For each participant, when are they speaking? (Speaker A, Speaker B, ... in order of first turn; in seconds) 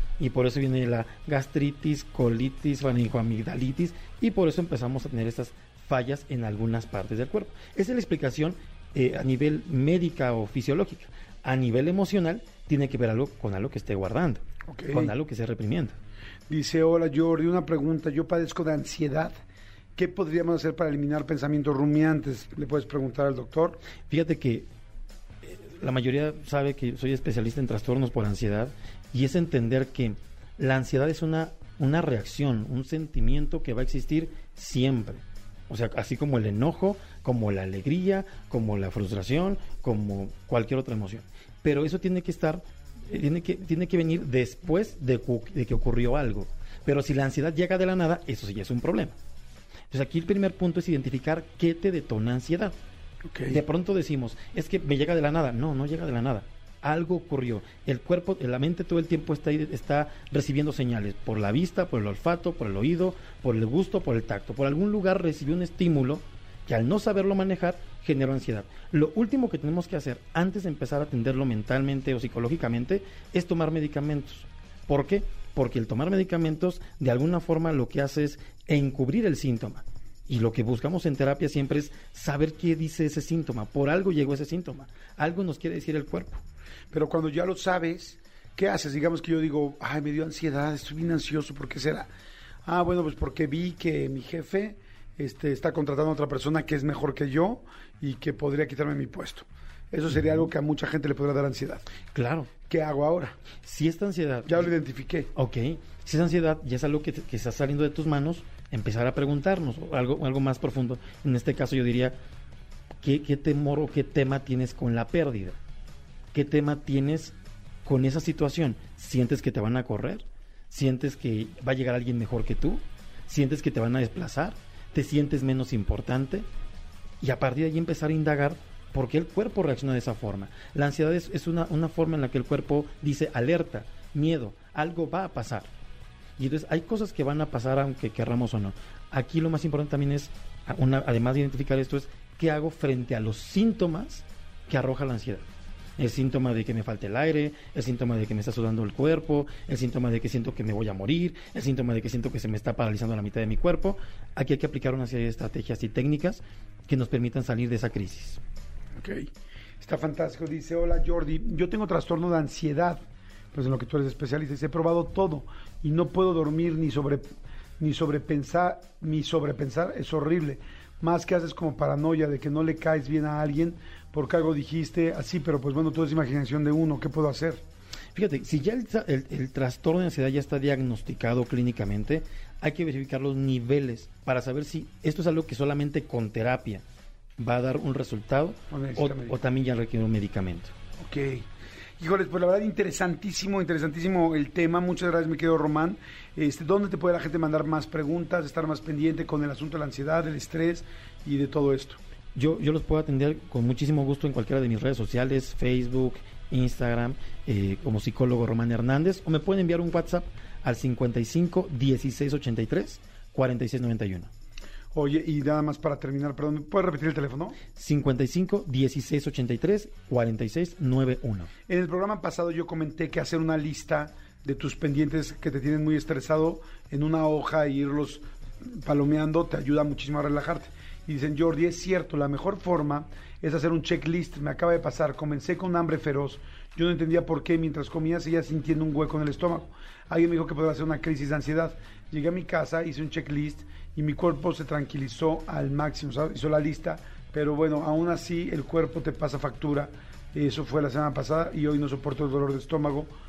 Speaker A: 0.2-16.0, 24.1-24.7, 25.4-49.1, 49.9-52.7, 53.5-86.4, 100.1-100.4, 102.1-102.5, 103.6-104.7, 105.3-112.2, 113.0-115.6, 116.3-126.5, 127.2-135.7, 136.4-145.4, 146.0-158.4, 178.1-186.8, 187.4-190.7, 202.3-214.3, 217.7-221.5
Speaker B: 14.7-15.1, 16.5-19.3, 19.9-23.8, 53.3-53.6, 86.9-92.1, 92.6-101.8, 102.6-103.5, 104.5-105.3, 159.0-159.3, 159.8-167.2, 167.8-177.6, 188.7-189.4, 191.0-191.4, 192.0-202.0, 214.9-217.6, 221.7-253.1